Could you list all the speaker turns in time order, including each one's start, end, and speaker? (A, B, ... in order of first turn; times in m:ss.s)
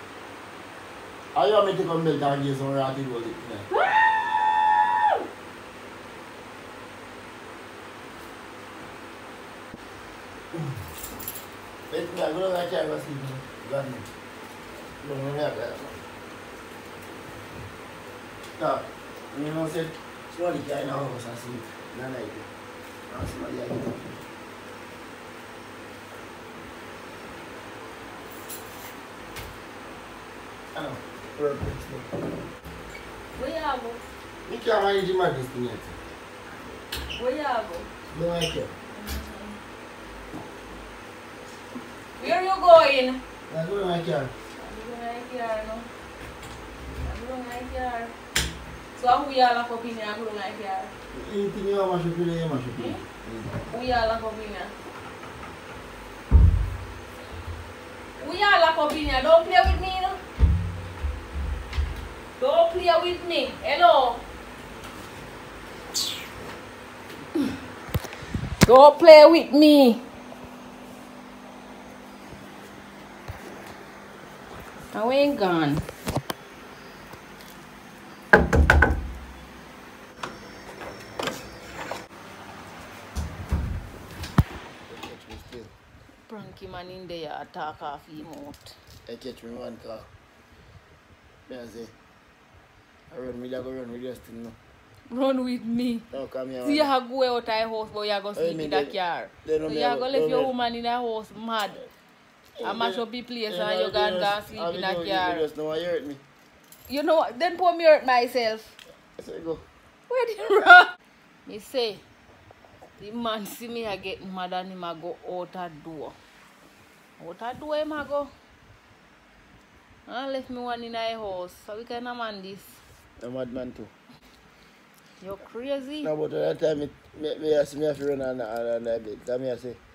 0:01.3-0:03.7 A
0:11.9-0:14.1 A
0:15.0-0:16.0 A
0:18.6-0:22.5 A
0:23.1-0:24.2 A
0:30.7-0:32.1 A
0:33.3-0:34.0 B
0:34.4-0:36.0 A
0:37.1-0:37.9 B
0:38.1-0:38.7 A
0:38.9-0:39.6 B
0:42.2-0:43.2 B
0:43.5-0:44.3 A
0:44.5-0:45.9 B
0:47.0-0:48.1 B
0:48.9-0:50.9 B
0:51.1-0:53.6 A
0:52.7-0:54.7 B
0:58.2-1:00.2 B
1:02.4-1:04.2 B
1:08.6-1:10.0 B
1:14.9-1:15.8 B
1:24.9-1:25.7 A
1:26.2-1:28.8 B
1:29.0-1:30.1 A
1:31.5-1:31.9 A
1:33.1-1:34.6 A
1:35.1-1:36.0 B
1:36.1-1:36.9 A
1:36.6-1:41.9 B
1:38.3-1:40.5 A
1:42.5-1:46.2 A
1:42.6-1:45.5 B
1:46.9-1:48.7 B
1:49.2-1:49.6 A
1:50.1-1:52.0 B
1:53.0-1:56.2 B
1:57.2-1:58.3 B
2:00.1-2:02.8 B
2:03.2-2:03.9 A
2:05.2-2:06.1 B
2:06.0-2:09.8 A